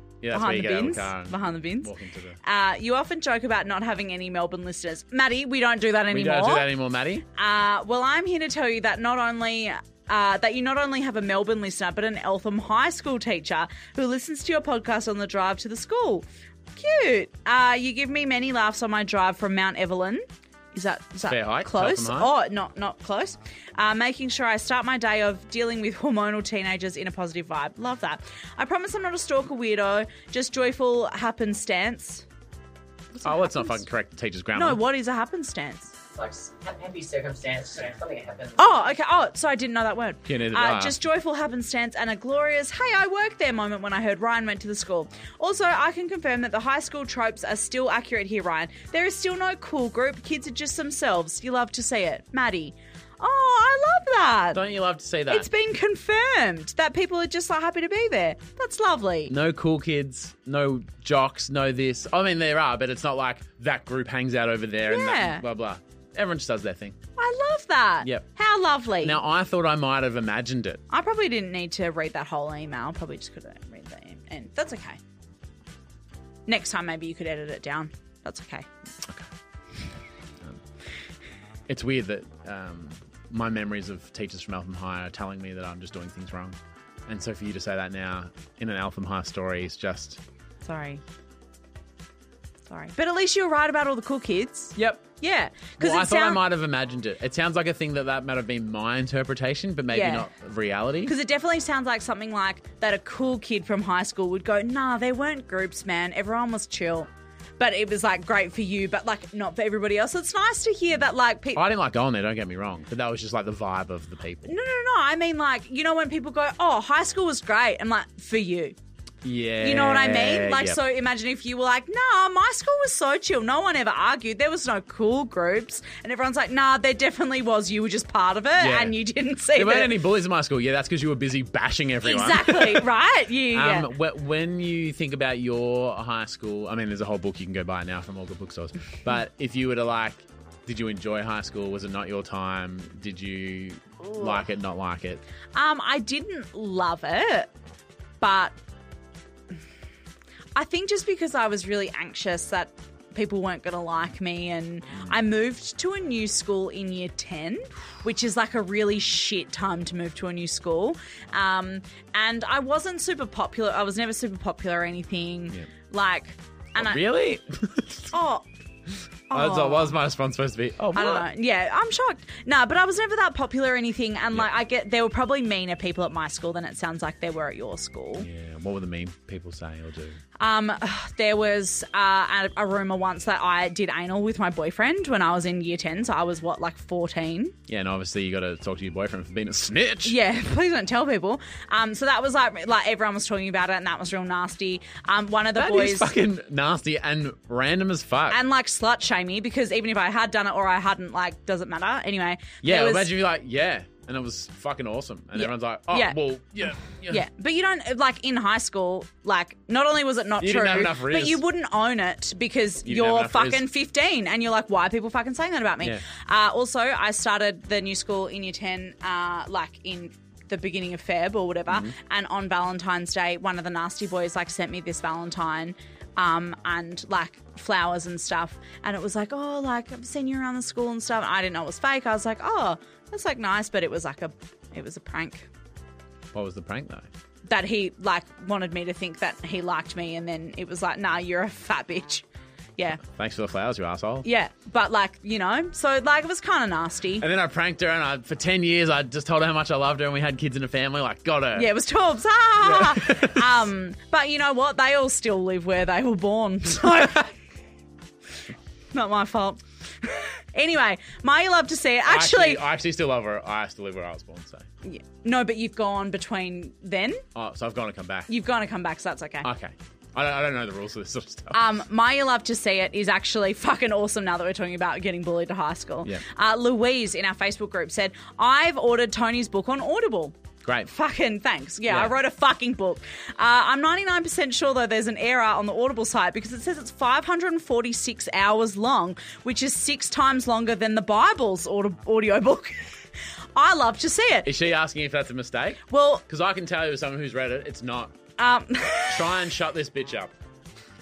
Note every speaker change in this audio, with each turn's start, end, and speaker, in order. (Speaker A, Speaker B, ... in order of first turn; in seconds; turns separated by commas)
Speaker A: 0.2-2.4, Speaker B: 0.3-1.9, Speaker B: 2.4-6.7, Speaker A: 6.1-7.2, Speaker B: 7.3-32.2, Speaker A: 21.2-22.3, Speaker B: 33.2-33.7, Speaker A: 33.2-34.8, Speaker B: 34.5-35.9, Speaker C: 36.1-38.9, Speaker B: 38.6-54.6, Speaker A: 40.2-41.0, Speaker A: 54.5-55.5, Speaker B: 55.3-59.3, Speaker A: 59.3-67.0, Speaker B: 64.9-65.4, Speaker B: 67.2-69.2, Speaker A: 69.0-70.8, Speaker B: 70.9-75.0, Speaker B: 76.5-78.7, Speaker A: 81.7-90.2, Speaker B: 90.6-91.0, Speaker B: 92.7-96.4, Speaker A: 94.8-95.0, Speaker A: 95.8-101.1, Speaker B: 99.9-100.3, Speaker B: 101.1-107.1, Speaker B: 107.6-111.6, Speaker A: 111.5-114.5, Speaker B: 114.5-118.7, Speaker A: 119.2-120.8, Speaker B: 119.6-129.9, Speaker A: 128.6-128.9, Speaker A: 129.5-132.8, Speaker B: 132.0-133.9, Speaker A: 133.5-145.2, Speaker B: 144.1-144.3, Speaker B: 145.5-147.5, Speaker B: 148.2-148.5, Speaker B: 150.6-167.0, Speaker A: 166.8-168.1, Speaker B: 168.1-168.4, Speaker B: 169.3-169.9, Speaker A: 169.3-171.3, Speaker B: 170.9-178.3, Speaker A: 178.2-180.2, Speaker B: 180.4-187.5, Speaker A: 187.7-190.1, Speaker B: 190.0-196.1, Speaker A: 195.6-198.4, Speaker B: 198.3-203.1, Speaker A: 202.6-207.2, Speaker B: 205.4-206.2, Speaker B: 207.1-235.5, Speaker A: 210.4-211.4, Speaker A: 212.8-213.6, Speaker A: 221.7-221.9, Speaker A: 236.3-237.1, Speaker B: 237.5-242.2, Speaker A: 243.1-244.2, Speaker B: 244.2-247.2, Speaker A: 247.2-251.7, Speaker B: 251.6-257.3, Speaker A: 252.6-253.4, Speaker B: 258.9-262.6, Speaker A: 262.1-264.7, Speaker B: 264.8-267.2, Speaker A: 267.3-268.3, Speaker B: 268.3-269.5, Speaker A: 269.4-271.6, Speaker B: 271.5-280.4, Speaker B: 280.9-292.9, Speaker A: 281.9-282.1, Speaker B: 293.6-294.5, Speaker A: 294.4-298.1, Speaker B: 295.9-296.2, Speaker B: 298.4-299.3, Speaker A: 299.1-300.3